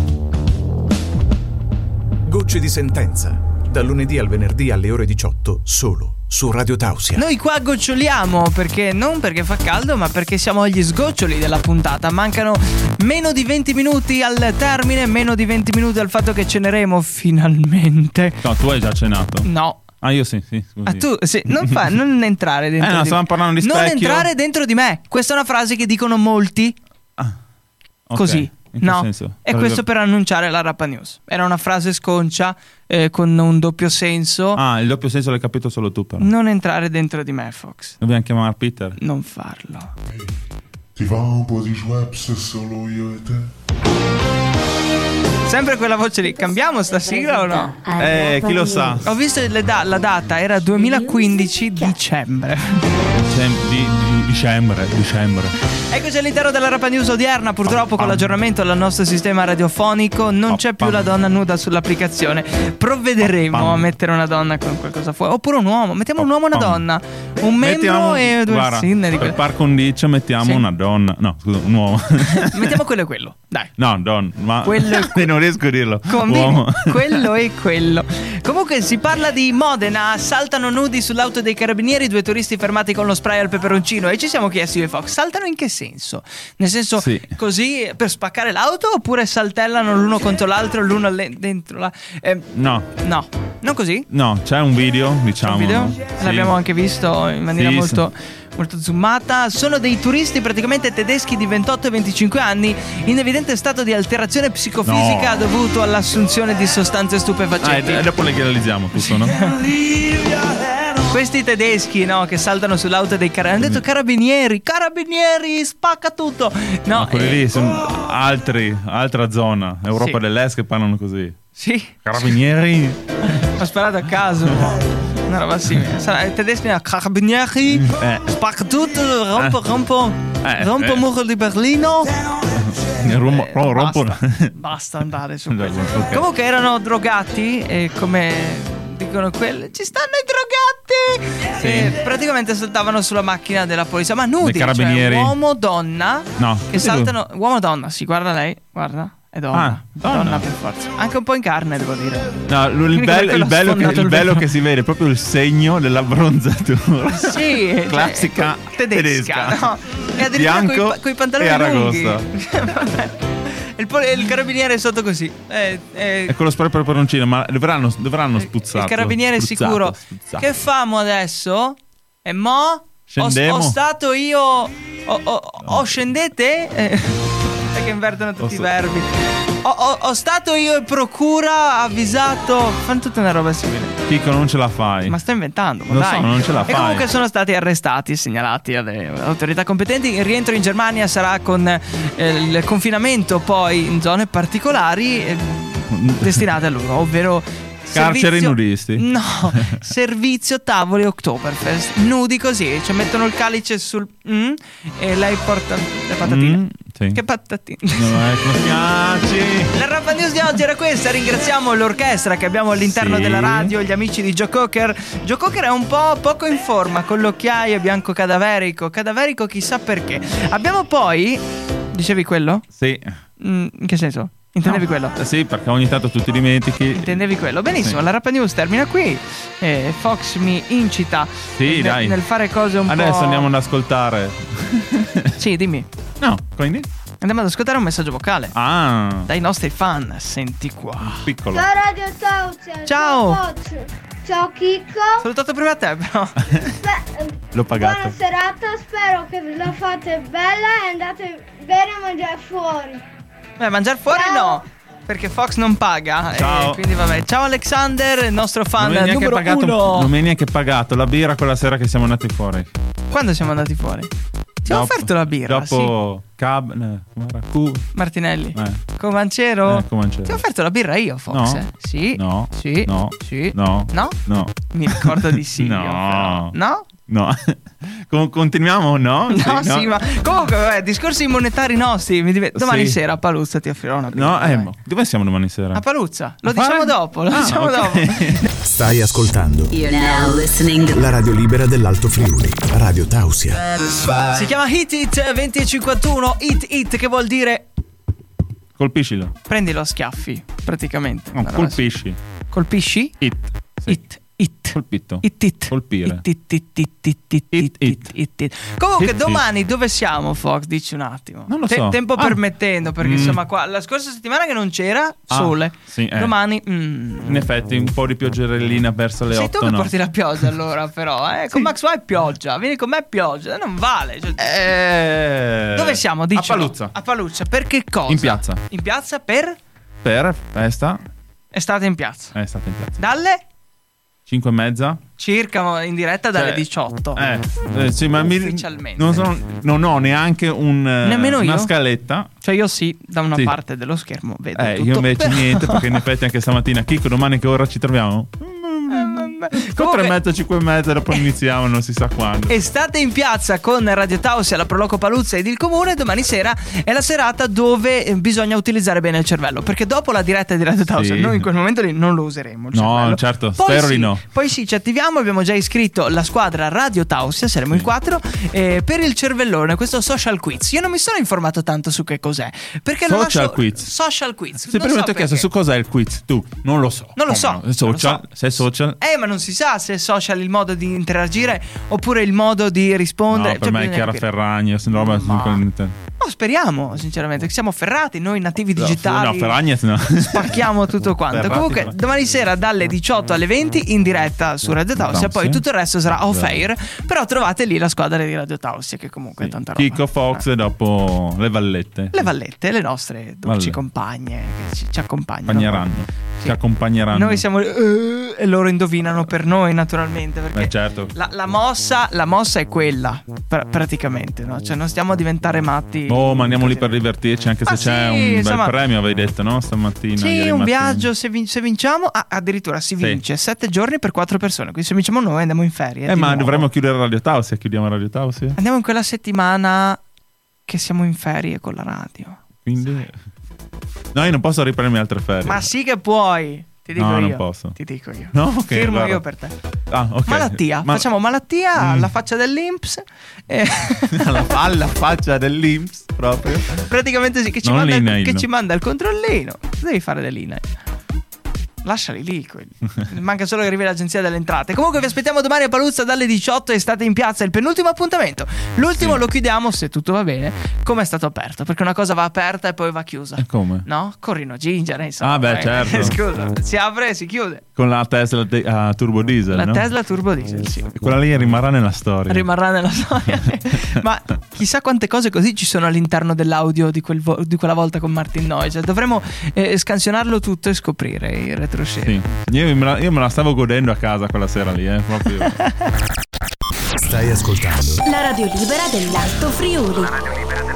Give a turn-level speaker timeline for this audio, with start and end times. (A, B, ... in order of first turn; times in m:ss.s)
0:02.2-0:07.3 A
0:07.2-0:18.4 B
0:18.4-0:21.7 C
0:19.4-0:19.8 B
0:20.9-0:26.8 B
0:22.8-0:24.3 C
0:28.1-0:29.8 C
0:28.2-0:34.6 B
0:34.6-0:36.3 C
0:36.2-0:38.0 B
0:38.0-0:39.0 C
0:39.0-0:39.9 B
0:40.1-0:40.4 D
0:41.0-0:43.5 D
0:45.4-0:47.8 B
0:47.4-0:48.6 E
0:48.0-0:49.1 C
0:49.0-0:52.9 B
0:53.1-0:55.5 C
0:55.9-1:09.4 B
0:57.7-0:58.3 C
1:00.5-1:01.1 C
1:03.2-1:03.9 C
1:06.2-1:06.8 C
1:07.4-1:12.8 C
1:12.4-1:13.7 B
1:13.8-1:17.3 C
1:14.6-1:15.3 B
1:16.1-1:34.1 B
1:27.0-1:27.3 C
1:32.5-1:32.9 C
1:34.1-1:36.6 C
1:35.4-1:48.1 B
1:37.5-1:38.0 C
1:44.8-1:45.5 C
1:47.6-1:49.5 C
1:49.3-1:49.7 B
1:51.0-1:57.5 B
1:56.9-2:01.4 C
2:01.6-2:02.2 B
2:02.0-2:03.4 C
2:03.3-2:12.3 B
2:07.7-2:08.3 C
2:10.4-2:11.0 C
2:12.5-2:14.6 C
2:13.0-2:34.5 B
2:15.5-2:16.3 C
2:21.6-2:22.0 C
2:24.4-2:25.4 C
2:26.4-2:27.1 C
2:29.5-2:30.5 C
2:32.5-2:42.3 C
2:37.1-2:46.4 B
2:46.3-2:50.5 C
2:48.5-3:04.0 B
2:53.1-2:53.8 C
2:55.6-2:55.9 C
2:58.4-2:58.7 C
3:04.1-3:05.2 C
3:05.1-3:28.4 B
3:05.9-3:07.1 C
3:15.9-3:16.4 C
3:17.9-3:19.8 C
3:26.2-3:27.2 C
3:27.9-3:29.7 C
3:29.7-3:42.7 B
3:32.8-3:33.8 C
3:42.7-3:43.1 C
3:43.4-3:45.2 B
3:44.6-3:47.2 C
3:46.9-3:53.5 B
3:47.8-3:48.0 C
3:51.6-3:52.2 C
3:52.9-3:55.3 C
3:55.4-3:55.9 B
3:56.2-3:56.9 C
3:57.2-3:58.6 B
3:58.5-3:59.3 C
3:59.2-4:01.2 B
4:01.1-4:01.7 C
4:01.5-4:05.3 F
4:02.9-4:03.4 B
4:05.2-4:06.4 B
4:06.6-4:13.0 F
4:07.5-4:08.2 C
4:13.6-4:20.1 B
4:14.1-4:14.6 F
4:16.3-4:16.8 C
4:18.8-4:22.7 C
4:23.1-4:24.1 B
4:24.6-4:26.0 B
4:24.7-4:27.9 C
4:28.0-4:34.2 B
4:28.5-4:28.8 C
4:29.7-4:30.4 C
4:31.3-4:40.0 C
4:34.7-4:36.9 B
4:39.3-4:44.7 B
4:42.6-4:43.0 C
4:44.1-4:45.8 C
4:45.7-4:48.5 B
4:46.4-4:48.4 C
4:48.6-4:49.8 A
4:49.7-4:51.0 E
4:50.9-4:53.7 A
4:54.3-4:57.7 B
4:58.8-4:59.3 C
4:59.5-5:01.9 B
5:01.3-5:02.2 C
5:02.5-5:03.2 B
5:03.2-5:04.0 C
5:03.9-5:17.4 B
5:04.7-5:06.2 C
5:07.5-5:08.1 C
5:09.0-5:09.4 C
5:11.5-5:12.4 C
5:13.0-5:13.4 C
5:15.3-5:16.4 C
5:17.2-5:19.9 C
5:19.3-5:24.6 B
5:24.4-5:26.9 C
5:25.7-5:29.6 B
5:28.1-5:28.6 C
5:30.0-5:31.0 C
5:31.5-5:32.4 B
5:32.3-5:33.0 C
5:33.0-5:33.4 B
5:34.3-5:35.0 C
5:35.2-5:37.2 B
5:36.4-5:42.3 C
5:38.2-5:39.3 B
5:41.0-5:41.7 B
5:42.4-5:45.9 B
5:44.6-5:52.6 C
5:48.9-5:50.2 B
5:52.5-6:15.5 B
6:00.9-6:01.5 C
6:02.7-6:04.2 C
6:13.0-6:13.9 C
6:14.6-6:19.0 C
6:17.2-6:24.3 B
6:23.3-6:26.0 C
6:24.9-6:25.6 B
6:26.2-6:29.6 B
6:28.8-6:30.7 C
6:30.2-6:40.4 B
6:31.3-6:32.0 C
6:35.0-6:36.6 C
6:39.4-6:42.3 C
6:42.1-6:46.6 B
6:43.5-6:43.8 C
6:45.5-6:47.4 C
6:47.1-6:57.0 B
6:50.5-6:51.1 C
6:56.1-7:01.1 C
6:57.6-6:58.8 B
7:00.2-7:06.7 B
7:06.1-7:08.6 C
7:08.6-7:10.0 B
7:10.7-7:12.4 B
7:12.6-7:13.2 C
7:14.1-7:15.7 C
7:15.4-7:19.5 B
7:16.9-7:17.8 C
7:18.3-7:19.2 C
7:19.9-7:21.1 C
7:20.3-7:24.5 B
7:21.8-7:22.1 C
7:24.0-7:26.9 C
7:26.8-7:30.7 B
7:27.6-7:28.5 C
7:31.8-7:47.6 B
7:39.0-7:39.2 C
7:43.4-7:43.9 C
7:45.2-7:46.2 C
7:47.8-7:49.9 C
7:49.5-7:51.0 B
7:51.0-7:52.5 C
7:52.3-8:02.2 B
7:53.4-7:54.0 C
8:02.0-8:05.6 C
8:07.0-8:08.0 A
8:08.0-8:10.2 E